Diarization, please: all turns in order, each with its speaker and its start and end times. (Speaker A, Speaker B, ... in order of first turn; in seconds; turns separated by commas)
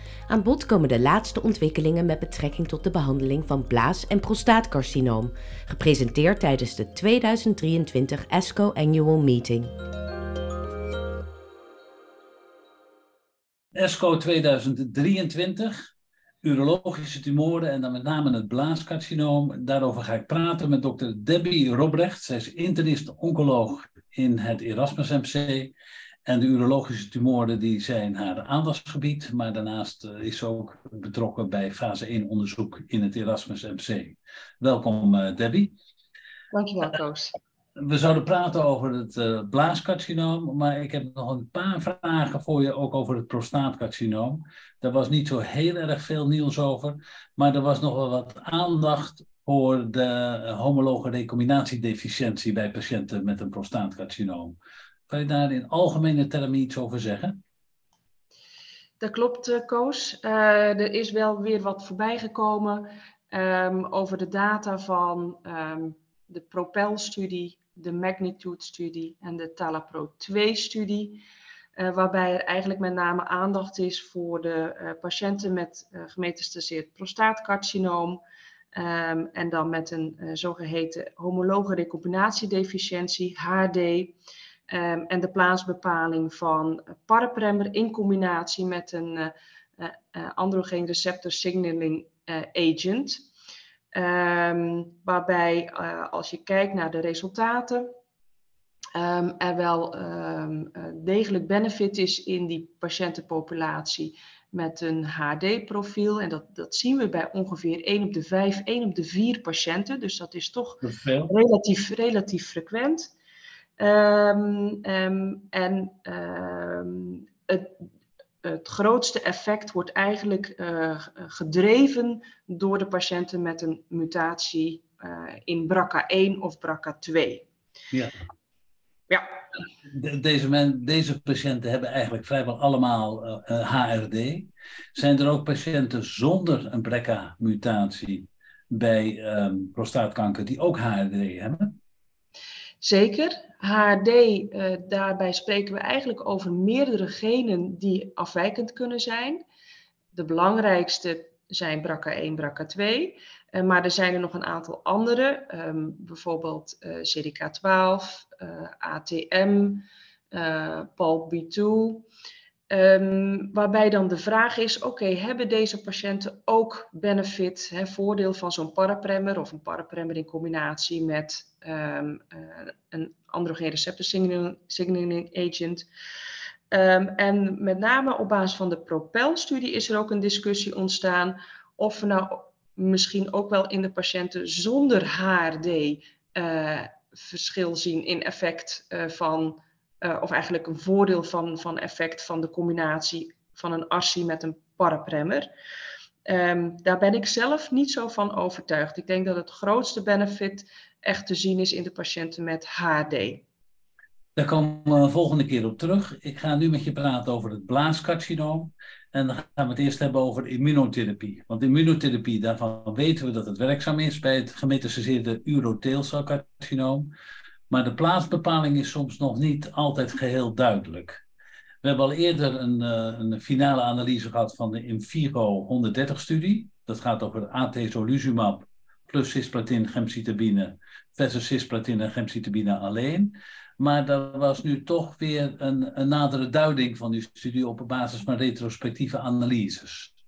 Speaker A: 0.3-9.7, Speaker B: 13.7-15.8, Speaker B: 16.4-25.7, Speaker B: 26.3-35.7, Speaker C: 36.5-37.3, Speaker B: 37.8-54.5, Speaker B: 55.1-57.4, Speaker C: 59.0-71.2, Speaker C: 71.8-78.2, Speaker C: 78.7-84.2, Speaker C: 84.7-93.2, Speaker C: 93.9-97.9, Speaker C: 98.9-113.1, Speaker B: 110.8-111.3, Speaker C: 113.8-117.7, Speaker C: 118.4-127.5, Speaker B: 129.9-141.8, Speaker C: 142.8-149.4, Speaker C: 150.1-162.1, Speaker C: 162.7-175.9, Speaker C: 176.7-195.5, Speaker C: 196.2-203.4, Speaker B: 204.4-217.1, Speaker B: 217.7-221.2, Speaker B: 221.8-240.2